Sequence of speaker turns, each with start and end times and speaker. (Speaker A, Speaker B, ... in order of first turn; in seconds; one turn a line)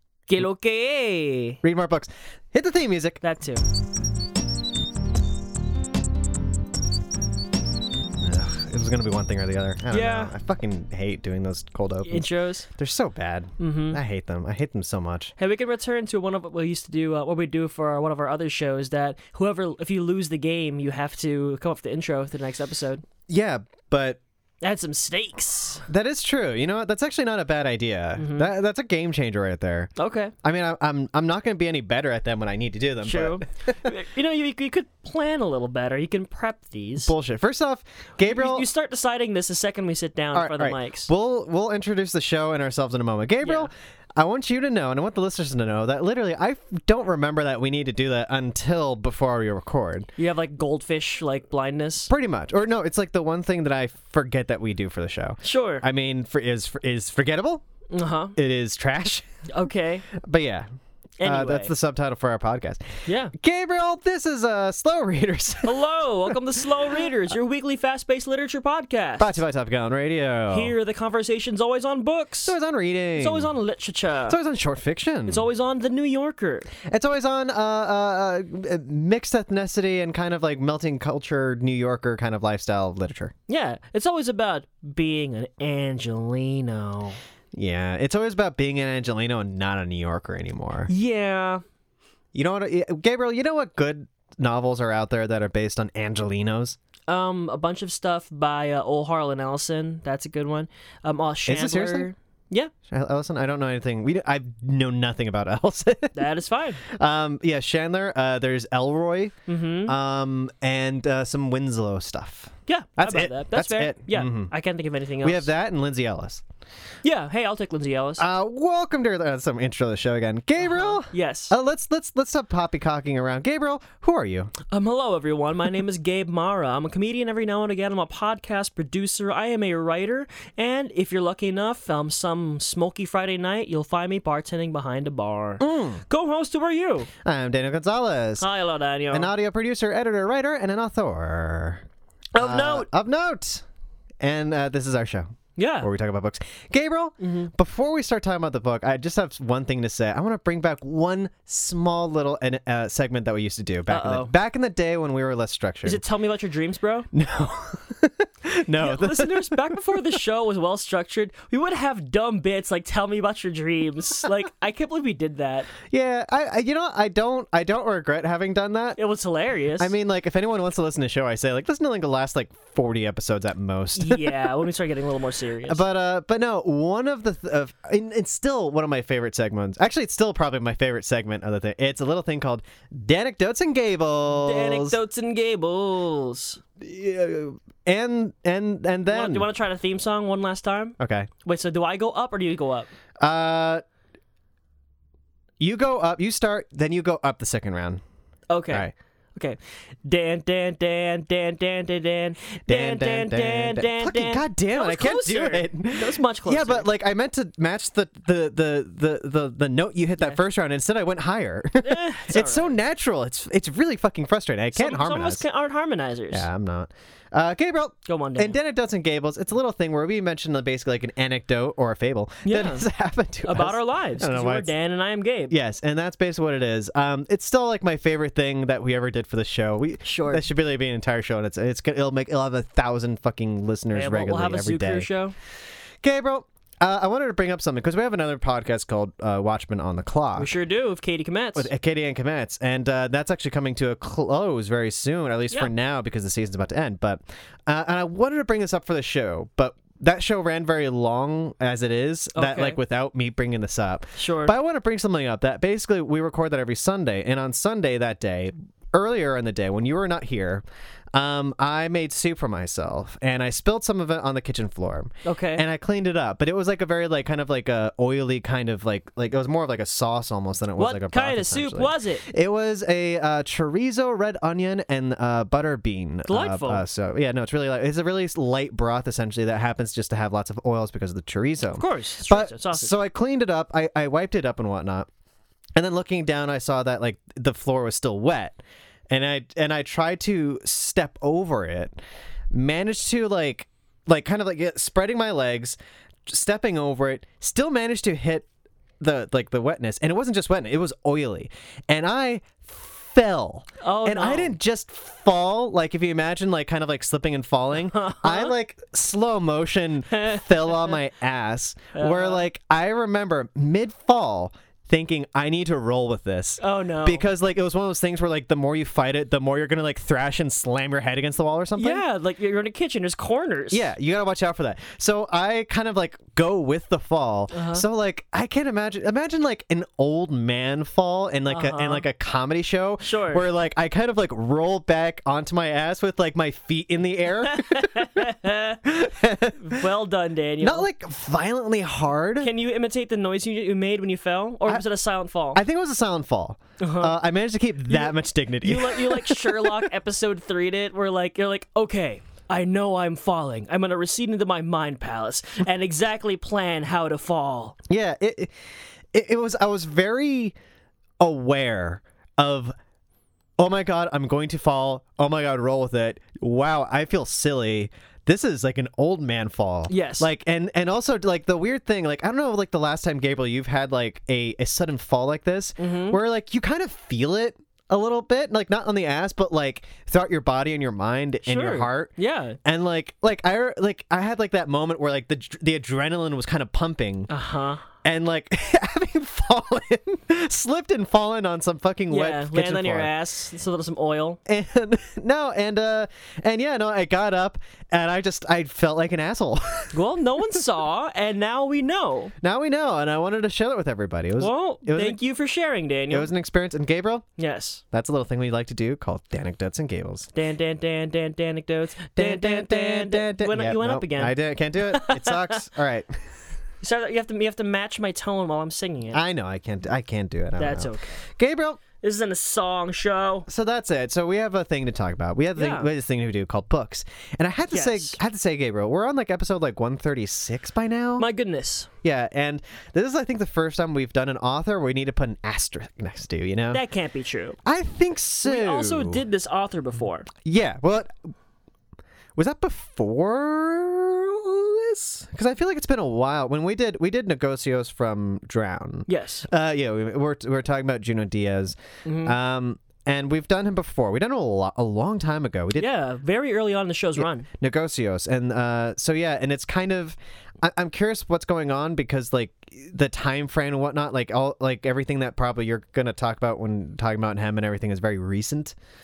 Speaker A: 0.3-1.6
Speaker B: 1.6-3.2
Speaker A: 3.2-3.6
Speaker B: 8.2-15.3
Speaker A: 9.9-10.3
Speaker A: 12.1-12.7
Speaker A: 13.6-14.0
Speaker A: 15.4-23.0
Speaker B: 23.3-24.2
Speaker A: 24.6-25.9
Speaker B: 25.9-29.9
Speaker A: 28.2-28.5
Speaker A: 30.0-30.3
Speaker B: 30.4-33.9
Speaker A: 33.0-37.1
Speaker B: 37.0-38.7
Speaker A: 38.2-41.1
Speaker B: 40.3-50.1
Speaker A: 43.4-43.7
Speaker A: 50.2-52.1
Speaker B: 52.1-57.6
Speaker A: 55.4-55.8
Speaker A: 57.9-58.4
Speaker B: 58.4-59.3
Speaker A: 59.5-60.1
Speaker B: 60.1-60.7
Speaker A: 61.2-61.7
Speaker B: 61.2-65.9
Speaker A: 63.1-63.3
Speaker A: 65.6-69.4
Speaker B: 69.2-70.7
Speaker A: 70.5-72.5
Speaker B: 72.5-73.5
Speaker A: 73.2-74.4
Speaker B: 74.3-75.5
Speaker A: 75.3-76.7
Speaker B: 76.8-83.3
Speaker A: 83.5-87.2
Speaker B: 87.5-90.9
Speaker A: 90.9-91.6
Speaker B: 92.3-96.8
Speaker A: 97.1-102.7
Speaker B: 101.5-102.1
Speaker B: 102.9-106.2
Speaker A: 106.2-106.8
Speaker B: 106.8-109.3
Speaker A: 109.5-109.9
Speaker B: 109.9-114.5
Speaker A: 112.7-115.5
Speaker B: 115.2-116.4
Speaker A: 117.0-118.2
Speaker B: 118.2-124.5
Speaker A: 120.6-121.5
Speaker A: 124.7-137.1
Speaker B: 135.6-136.0
Speaker B: 137.2-138.5
Speaker A: 138.4-139.3
Speaker B: 139.1-141.8
Speaker A: 142.3-142.9
Speaker B: 142.4-143.6
Speaker B: 144.2-156.0
Speaker A: 145.6-145.9
Speaker A: 147.2-147.5
Speaker A: 153.9-154.3
Speaker A: 155.8-157.1
Speaker B: 157.1-160.0
Speaker A: 158.8-165.7
Speaker B: 165.9-169.0
Speaker A: 169.0-169.9
Speaker B: 169.8-174.5
Speaker A: 174.0-175.8
Speaker B: 175.7-185.0
Speaker A: 184.4-186.6
Speaker B: 186.8-189.5
Speaker A: 189.1-192.9
Speaker B: 191.0-191.3
Speaker B: 193.2-193.8
Speaker B: 195.6-198.0
Speaker A: 198.5-206.9
Speaker B: 202.6-215.4
Speaker A: 211.8-212.8
Speaker A: 214.8-216.5
Speaker B: 216.3-224.7
Speaker A: 218.1-218.6
Speaker A: 222.5-222.9
Speaker A: 223.4-225.5
Speaker B: 225.5-235.1
Speaker A: 230.0-230.4
Speaker A: 233.9-235.3
Speaker B: 236.0-240.5
Speaker A: 240.4-241.7
Speaker B: 241.6-260.6
Speaker A: 252.3-252.8
Speaker A: 254.2-254.5
Speaker B: 261.1-285.1
Speaker A: 265.2-265.6
Speaker A: 270.8-272.2
Speaker A: 276.3-276.8
Speaker A: 281.7-282.9
Speaker B: 285.8-288.6
Speaker B: 289.1-291.9
Speaker B: 292.5-298.5
Speaker B: 299.0-322.0
Speaker A: 303.8-304.6
Speaker A: 307.9-308.5
Speaker A: 310.1-311.0
Speaker A: 311.9-312.4
Speaker A: 316.6-317.2
Speaker A: 321.8-323.8
Speaker B: 323.7-339.9
Speaker A: 327.5-327.8
Speaker A: 331.5-332.1
Speaker A: 333.0-333.4
Speaker A: 337.4-338.8
Speaker A: 339.6-340.9
Speaker B: 340.6-342.5
Speaker A: 342.4-345.6
Speaker B: 345.5-349.8
Speaker A: 346.8-347.2
Speaker A: 347.9-357.8
Speaker B: 357.9-358.5
Speaker B: 359.1-360.6
Speaker B: 361.2-362.7
Speaker B: 363.6-382.1
Speaker A: 369.9-370.3
Speaker A: 375.8-376.2
Speaker A: 381.4-382.6
Speaker B: 382.6-387.3
Speaker A: 387.3-387.9
Speaker B: 388.0-393.1
Speaker A: 392.1-394.4
Speaker B: 394.5-399.9
Speaker A: 399.9-402.4
Speaker B: 402.4-405.2
Speaker A: 404.4-406.3
Speaker B: 406.1-407.3
Speaker A: 407.4-407.8
Speaker B: 407.9-410.3
Speaker A: 410.4-414.4
Speaker B: 412.2-416.2
Speaker A: 414.9-415.6
Speaker A: 416.8-419.2
Speaker B: 419.1-421.8
Speaker A: 420.6-421.2
Speaker A: 422.0-423.5
Speaker B: 423.5-431.3
Speaker A: 425.6-425.9
Speaker A: 427.7-428.2
Speaker A: 431.2-431.9
Speaker B: 432.0-436.8
Speaker A: 436.7-437.6
Speaker B: 437.6-439.2
Speaker A: 438.4-440.3
Speaker B: 440.4-441.3
Speaker B: 442.4-455.9
Speaker A: 449.1-449.5
Speaker A: 452.1-452.4
Speaker A: 455.8-457.5
Speaker B: 457.2-468.8